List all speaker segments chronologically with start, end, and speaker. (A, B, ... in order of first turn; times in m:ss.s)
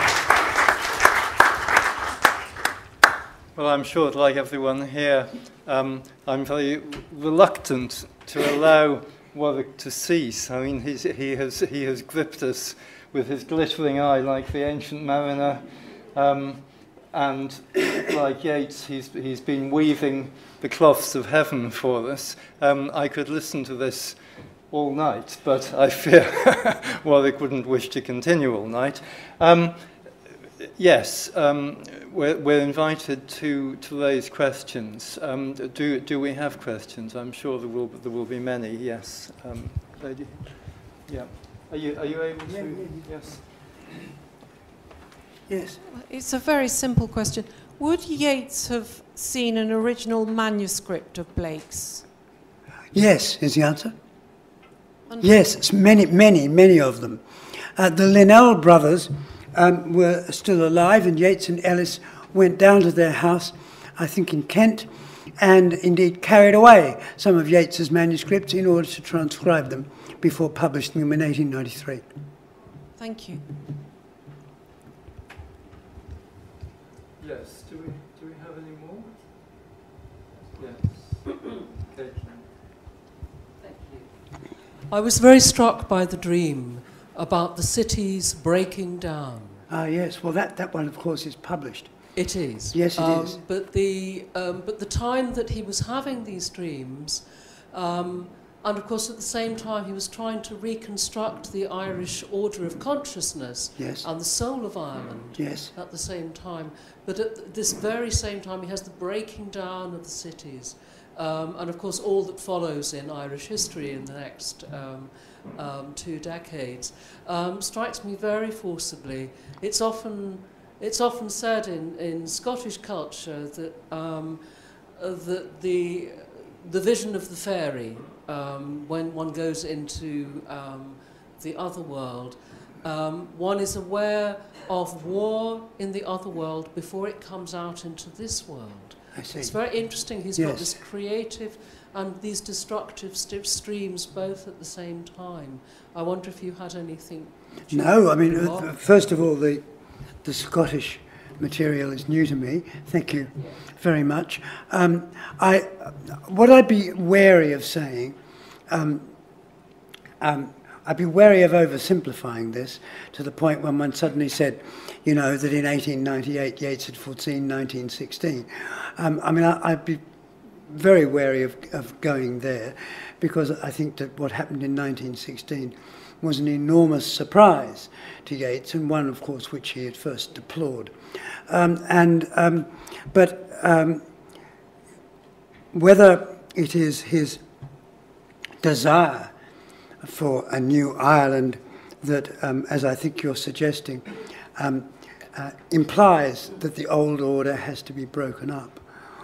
0:03.6-0:29.9 A
0:30.6-0:43.4 A
0:42.5-0:42.9 B
0:45.5-0:45.8 B
0:45.8-0:52.0 C
0:52.9-0:53.9 B
0:55.2-0:57.2 B
0:57.8-1:04.9 B
1:05.4-1:12.0 B
1:13.0-1:13.4 C
1:17.2-1:19.1 A
1:20.5-1:21.3 A
1:21.9-1:22.4 A
1:23.7-1:24.0 D
1:24.9-1:29.6 D
1:29.7-1:31.9 B
1:32.1-2:04.4 D
1:32.7-1:33.4 B
1:43.8-1:44.0 B
1:45.4-1:45.7 B
2:05.0-2:28.7 D
2:19.1-2:19.5 B
2:20.4-2:20.7 B
2:27.7-2:29.6 B
2:30.2-2:38.2 B
2:38.7-2:39.1 B
2:40.2-2:50.0 B
2:50.7-3:00.9 B
3:01.5-3:04.0 B
3:05.7-3:07.4 B
3:08.6-3:09.3 B
3:10.0-3:18.8 B